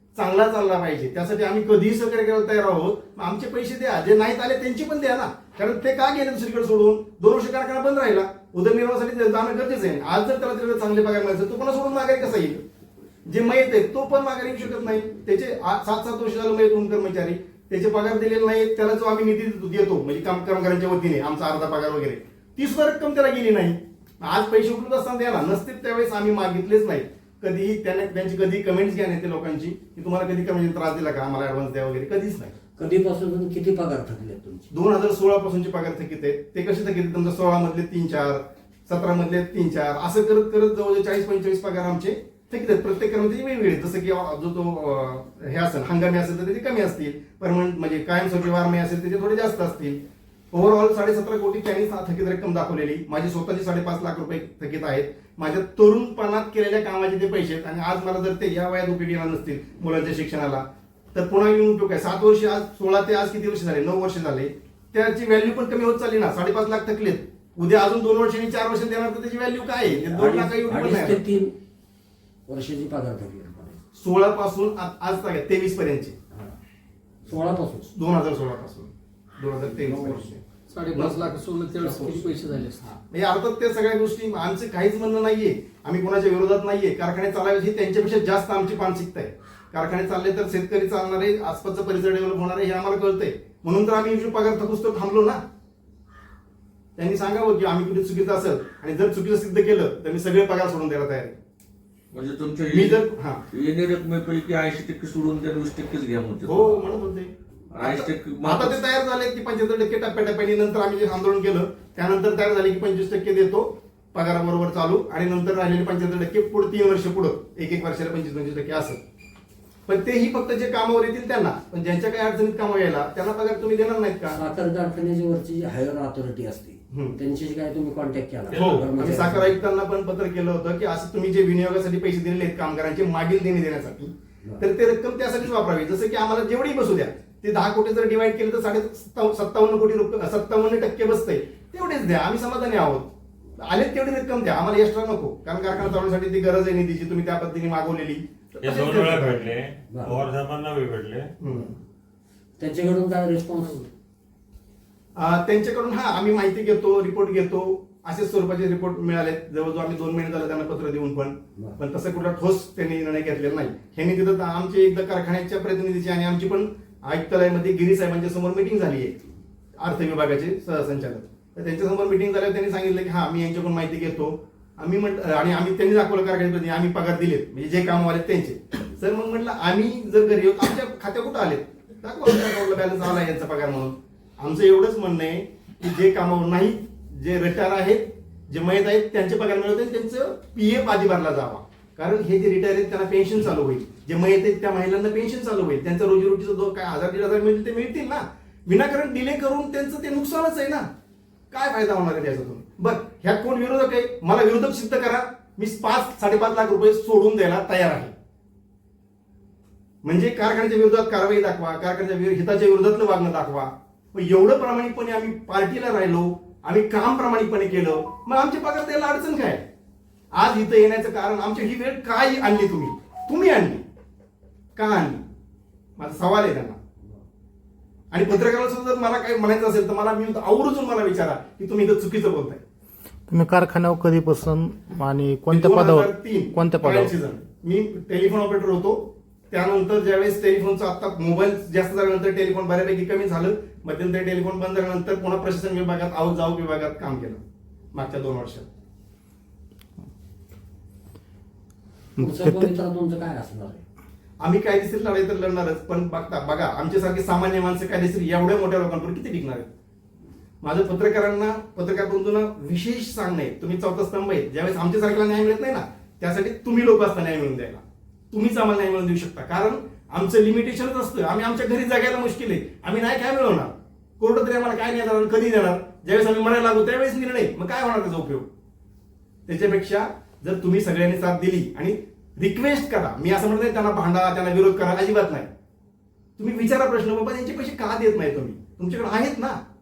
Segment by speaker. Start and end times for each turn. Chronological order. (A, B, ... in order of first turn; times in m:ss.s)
0:00.1-0:12.6 A
0:13.2-0:32.6 A
0:32.8-0:34.7 B
0:34.7-0:50.0 A
0:50.5-1:11.2 A
1:09.8-1:11.5 B
1:12.5-1:13.8 B
1:14.0-1:16.1 A
1:17.2-1:17.9 B
1:17.9-1:20.4 A
1:19.7-1:20.3 B
1:20.7-1:22.9 C
1:20.9-1:21.3 A
1:21.8-1:22.2 B
1:22.8-1:35.4 A
1:37.0-1:41.4 A
1:42.1-1:46.9 D
1:42.7-1:43.4 A
1:46.4-1:59.0 A
1:47.7-1:48.8 D
1:59.9-2:04.4 A
2:04.3-2:09.6 B
2:06.9-2:07.2 A
2:08.5-2:08.8 E
2:08.5-2:29.5 A
2:28.6-2:31.3 E
2:29.9-2:30.2 B
2:31.4-2:31.8 A
2:32.6-2:33.9 B
2:35.2-2:49.2 A
2:49.8-3:20.9 A
3:21.5-3:28.1 A
3:30.0-3:39.6 A
3:40.3-3:43.8 A
3:44.8-3:45.2 A
3:46.0-3:46.8 A
3:48.1-3:52.6 A
3:53.3-3:57.1 F
3:55.5-4:07.4 A
4:07.9-4:08.7 A
4:12.2-4:12.7 F
4:12.2-4:13.8 B
4:14.4-4:19.7 A
4:20.6-4:38.5 A
4:39.5-4:45.5 A
4:46.4-4:49.6 A